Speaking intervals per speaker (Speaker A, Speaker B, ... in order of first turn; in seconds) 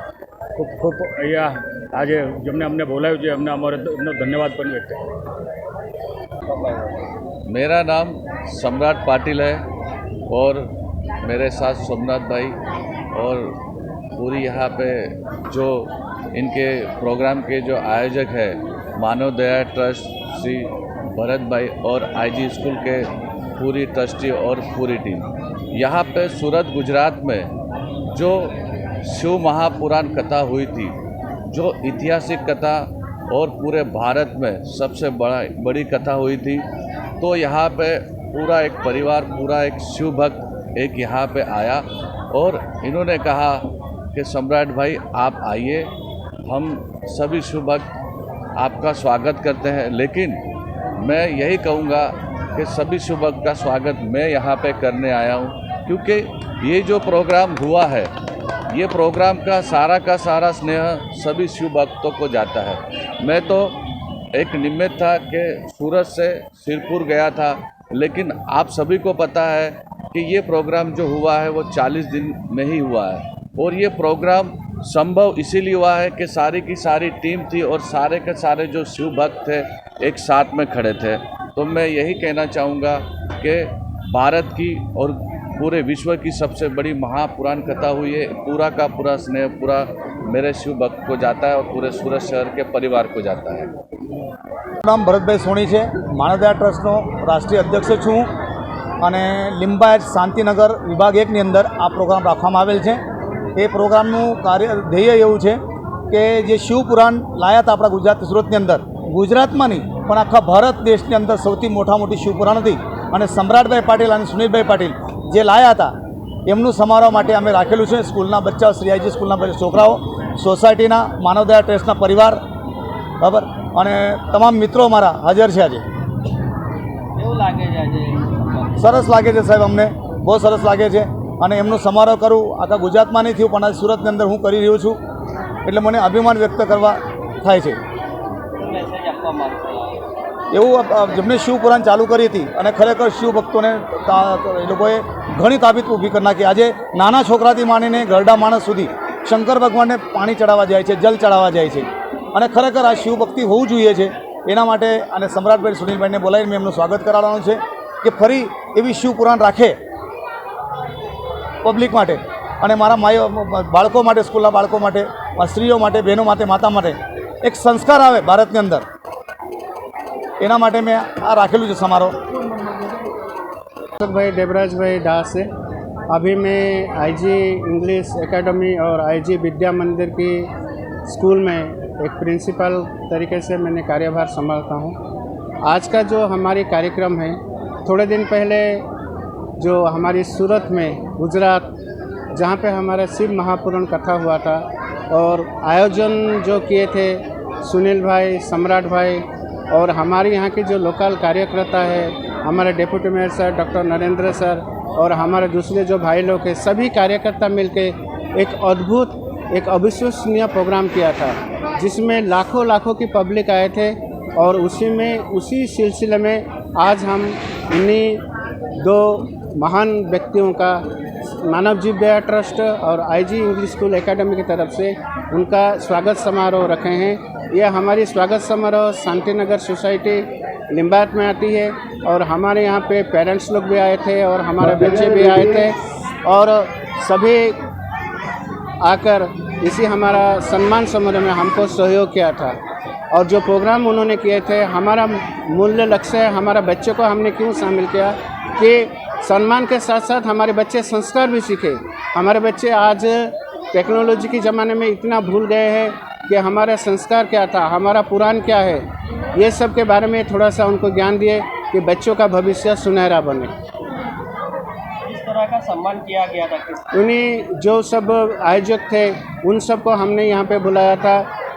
Speaker A: 0.6-5.0
Speaker B: 6.5-7.0, 127.2-129.0, 138.6-140.0, 265.1-266.8
Speaker C: 7.5-9.6, 10.3-10.7, 11.2-12.6, 13.1-13.5, 14.2-23.1, 23.6-27.5, 28.1-28.5, 29.1-31.0, 31.5-36.7, 37.2-45.9, 46.5-47.9, 48.6-50.4, 51.0-58.1, 58.7-63.8, 64.3-93.7
Speaker D: 94.8-98.3, 99.0-103.0, 103.5-105.6, 106.1-115.9, 116.5-122.4, 123.2-125.8, 128.8-135.0, 135.7-137.8, 140.5-159.7, 161.6-168.8, 170.4-172.1
Speaker E: 174.0-175.5, 176.1-180.5, 181.1-185.0, 185.7-188.8, 189.6-191.7, 192.3-218.2, 218.8-220.8, 221.4-237.6, 238.8-242.6, 243.1-258.8, 259.4-263.5, 266.9-271.2